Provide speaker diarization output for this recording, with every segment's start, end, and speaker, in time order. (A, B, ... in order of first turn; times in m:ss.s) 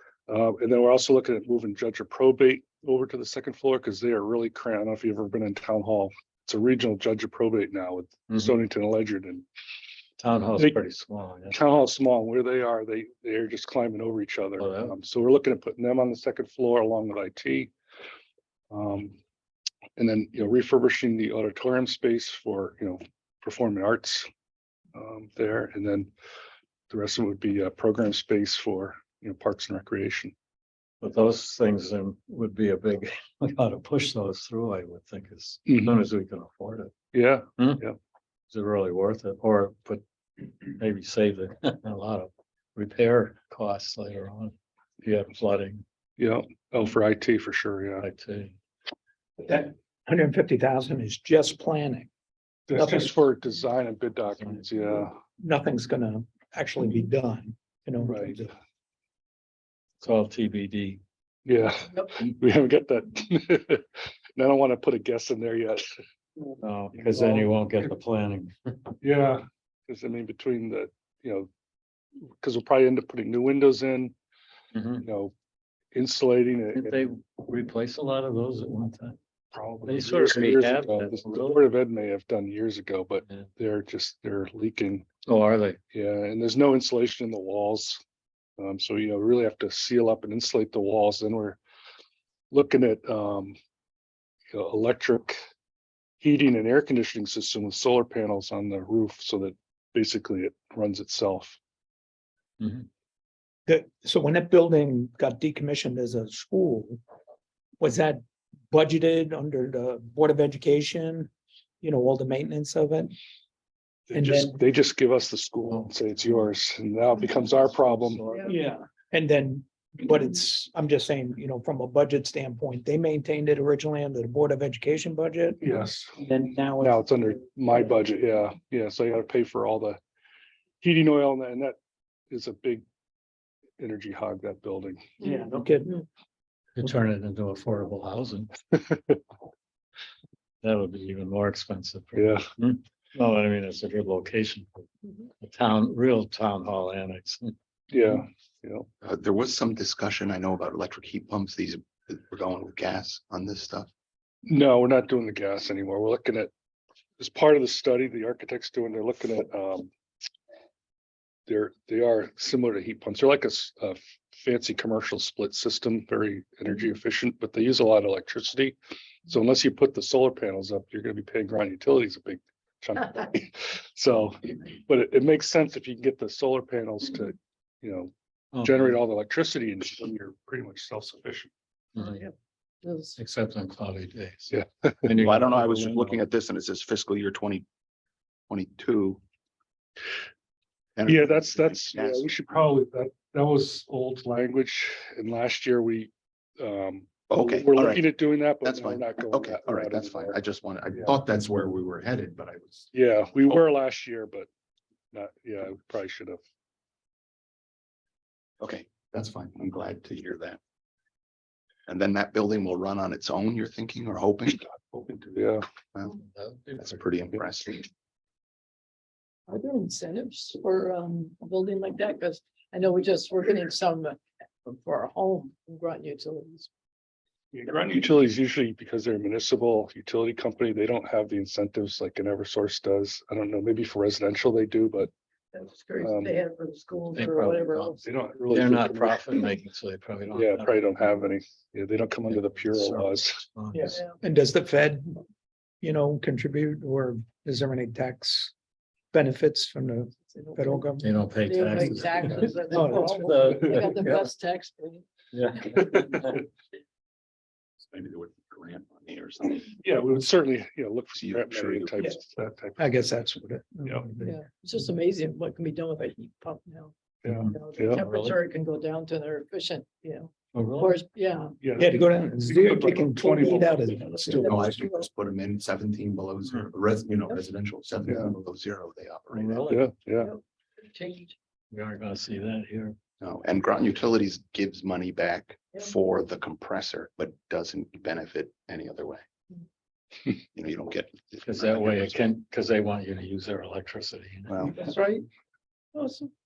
0:00.3-0:09.5 A
0:08.3-0:08.6 B
0:10.2-0:11.6 B
0:10.6-0:10.8 A
0:11.5-0:17.7 A
0:14.6-0:14.9 B
0:18.7-0:19.2 A
0:20.0-0:24.3 A
0:24.9-0:26.1 A
0:26.9-0:30.3 A
0:31.0-0:36.9 B
0:35.7-0:36.0 A
0:37.1-0:38.0 A
0:37.6-0:37.8 B
0:38.5-0:40.0 B
0:40.8-0:45.8 B
0:46.2-0:48.0 A
0:48.0-0:48.6 B
0:49.4-0:52.1 C
0:52.7-0:55.1 A
0:52.7-0:53.2 C
0:54.4-0:54.7 B
0:55.4-0:58.5 C
0:58.0-0:58.4 A
1:00.0-1:01.0 B
1:01.4-1:06.0 A
1:01.8-1:02.3 D
1:06.6-1:08.9 B
1:06.9-1:07.5 A
1:09.0-1:11.5 A
1:12.4-1:14.1 A
1:14.7-1:15.1 B
1:15.0-1:15.3 A
1:15.9-1:17.0 A
1:16.7-1:19.2 B
1:19.5-1:25.0 A
1:19.8-1:21.7 B
1:25.2-1:25.8 B
1:25.9-1:28.0 A
1:28.6-1:31.6 A
1:32.5-1:33.6 A
1:34.5-1:35.4 A
1:36.2-1:41.6 A
1:43.7-1:47.0 C
1:47.8-1:53.1 C
1:54.1-1:58.4 A
1:54.1-1:54.6 C
1:55.7-1:56.4 B
1:58.0-1:58.4 B
1:58.4-2:07.3 C
2:05.6-2:06.2 A
2:06.8-2:10.0 A
2:10.8-2:11.8 A
2:12.3-2:12.8 A
2:13.8-2:15.2 A
2:15.2-2:16.0 C
2:16.8-2:18.5 B
2:20.6-2:24.8 B
2:22.1-2:22.5 A
2:25.4-2:27.5 B
2:27.9-2:28.9 A
2:29.0-2:33.9 E
2:34.4-2:36.5 A
2:37.2-2:39.9 A
2:41.5-2:48.8 A
2:49.3-3:01.5 A
2:58.5-2:59.0 B
3:02.0-3:02.2 B
3:02.0-3:03.2 D
3:03.2-3:06.2 B
3:04.5-3:05.1 A
3:05.1-3:07.6 E
3:08.5-3:09.2 E
3:11.0-3:12.5 E
3:11.0-3:20.4 A
3:17.3-3:23.7 E
3:22.9-3:24.5 A
3:25.1-3:26.4 A
3:28.6-3:30.6 E
3:31.9-3:36.2 E
3:35.3-3:35.7 A
3:36.1-3:37.0 B
3:36.8-3:37.9 E
3:39.5-3:46.7 D
3:47.5-3:55.1 A
3:55.5-3:58.0 D
3:56.0-3:56.4 A
3:57.1-4:00.9 B
3:58.0-3:59.4 A
4:00.3-4:03.4 A
4:02.3-4:04.0 B
4:03.7-4:05.2 C
4:03.7-4:04.1 D
4:05.8-4:08.5 C
4:09.1-4:11.1 C
4:10.3-4:15.1 D
4:11.0-4:14.0 B
4:12.7-4:14.2 C
4:15.3-4:16.4 B
4:15.7-4:16.1 A
4:17.9-4:19.8 E
4:19.8-4:23.0 A
4:21.1-4:22.1 E
4:22.8-4:24.4 C
4:24.2-4:26.9 D
4:27.2-4:28.0 A
4:27.3-4:28.4 B
4:27.4-4:31.7 D
4:30.5-4:31.0 B
4:31.6-4:33.7 A
4:31.8-4:34.8 C
4:33.2-4:35.1 D
4:34.4-4:39.7 E
4:38.1-4:38.3 A
4:39.3-4:39.9 B
4:39.7-4:40.3 A
4:40.2-4:41.4 D
4:41.7-4:43.0 B
4:43.2-4:49.2 E
4:50.6-4:52.2 E
4:51.4-4:54.6 B
4:54.5-4:54.8 E
4:54.6-4:55.3 D
4:56.0-4:56.3 D